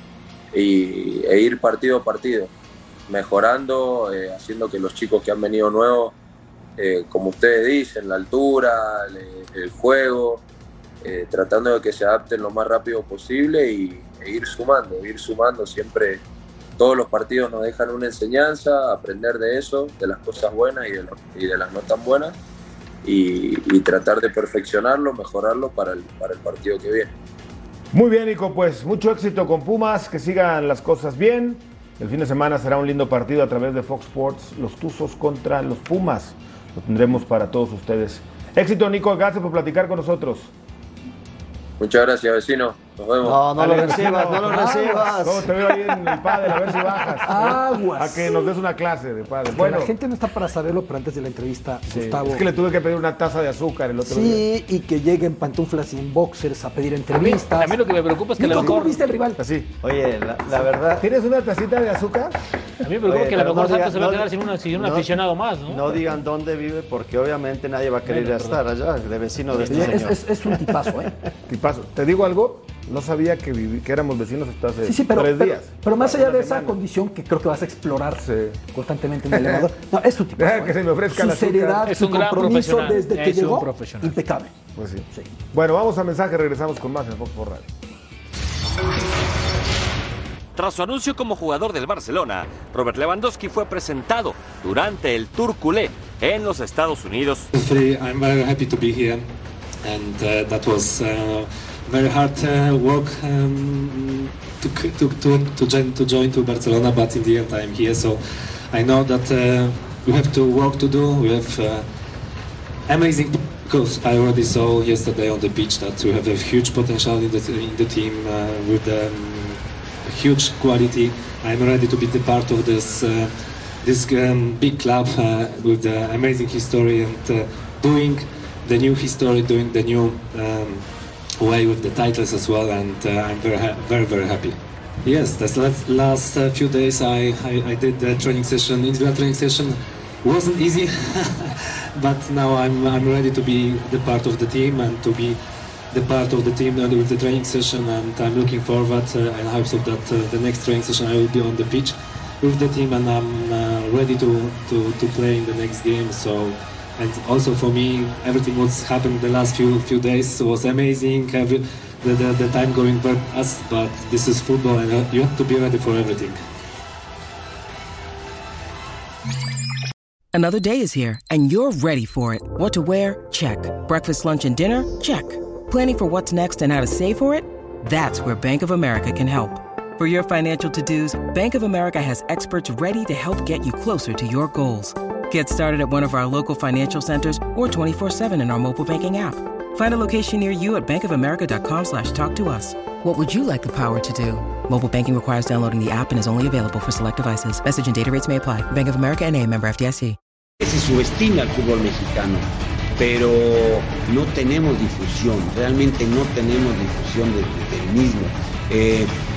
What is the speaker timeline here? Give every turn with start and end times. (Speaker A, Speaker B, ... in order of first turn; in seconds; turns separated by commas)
Speaker A: 0.5-2.5, Speaker A: 3.1-6.2, Speaker A: 6.8-10.4, Speaker A: 11.0-16.2, Speaker A: 16.8-22.4, Speaker A: 23.0-27.1, Speaker B: 27.9-40.5, Speaker A: 41.8-43.5, Speaker C: 43.2-45.5, Speaker B: 43.6-49.9, Speaker D: 44.4-45.0, Speaker D: 47.2-48.5, Speaker D: 49.5-52.5, Speaker B: 51.9-54.4, Speaker D: 54.0-59.4, Speaker E: 57.1-59.0, Speaker B: 59.4-59.7, Speaker C: 59.8-61.0, Speaker B: 60.9-62.4, Speaker E: 62.8-66.0, Speaker C: 63.1-65.1, Speaker C: 65.7-71.1, Speaker E: 68.1-68.6, Speaker D: 69.7-71.1, Speaker B: 71.5-76.8, Speaker D: 74.8-84.5, Speaker B: 78.2-78.6, Speaker B: 79.3-79.6, Speaker B: 80.4-81.8, Speaker E: 81.9-84.2, Speaker B: 84.8-87.7, Speaker F: 90.6-97.5, Speaker G: 97.5-99.3, Speaker G: 99.8-111.9, Speaker G: 112.9-166.4, Speaker H: 170.3-200.2, Speaker I: 200.6-202.5, Speaker I: 203.0-209.2